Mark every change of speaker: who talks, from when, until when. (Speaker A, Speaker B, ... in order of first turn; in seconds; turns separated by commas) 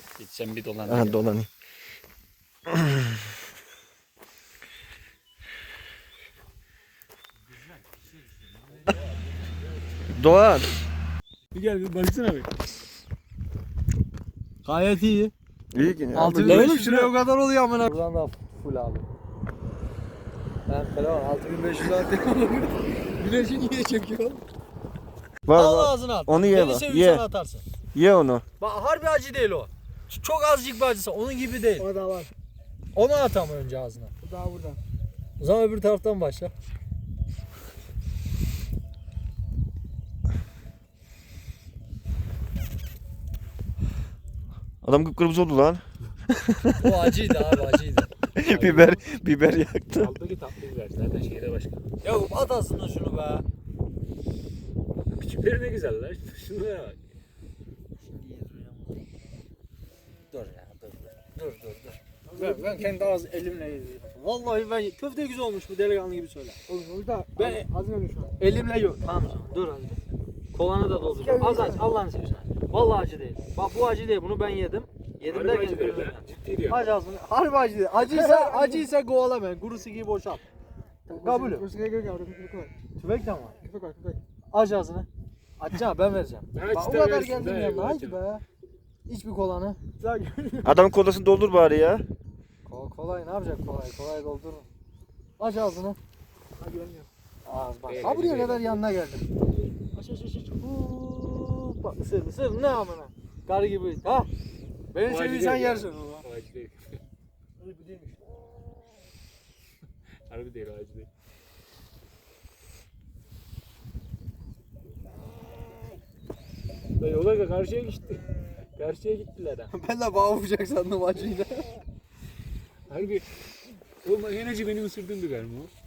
Speaker A: 0.2-1.3, Speaker B: 0.8-1.5, Speaker B: 2.7-3.1, Speaker B: 10.2-10.7, Speaker A: 11.5-12.6, Speaker C: 14.6-15.3, Speaker B: 15.7-16.7, Speaker C: 16.1-19.1, Speaker A: 16.4-17.1, Speaker C: 20.7-24.4, Speaker B: 25.4-27.2, Speaker C: 25.5-27.6, Speaker B: 27.9-28.4, Speaker C: 28.6-31.9, Speaker D: 31.8-32.3, Speaker C: 32.9-34.1, Speaker D: 34.2-34.8, Speaker C: 35.4-36.5, Speaker B: 44.8-47.0, Speaker C: 46.8-48.1, Speaker B: 48.3-50.1, Speaker A: 48.4-49.0, Speaker A: 49.9-51.8, Speaker C: 52.0-53.4, Speaker A: 55.1-57.0, Speaker C: 58.0-59.1, Speaker C: 60.3-66.6, Speaker D: 62.3-62.9, Speaker D: 66.7-68.3, Speaker C: 67.4-67.6, Speaker C: 68.4-70.0, Speaker C: 70.5-76.2, Speaker D: 71.2-71.8, Speaker A: 75.2-76.9, Speaker C: 76.7-80.4, Speaker D: 78.1-78.9, Speaker D: 81.1-82.7, Speaker C: 81.1-81.6, Speaker C: 83.0-83.5, Speaker D: 83.6-84.2, Speaker C: 84.5-85.1, Speaker C: 85.6-86.9, Speaker A: 86.5-88.2, Speaker D: 86.7-88.2, Speaker C: 88.0-88.4, Speaker C: 89.1-89.8, Speaker D: 90.0-90.7, Speaker B: 90.6-92.0, Speaker C: 92.6-94.7, Speaker C: 95.4-96.0, Speaker D: 96.6-97.1, Speaker C: 97.4-99.3, Speaker A: 97.9-98.8, Speaker C: 99.9-104.3, Speaker C: 104.9-106.2, Speaker A: 105.0-107.0, Speaker C: 107.6-108.1, Speaker A: 110.3-111.1, Speaker A: 117.0-119.7, Speaker C: 119.7-121.7, Speaker A: 122.9-123.2, Speaker A: 124.0-125.7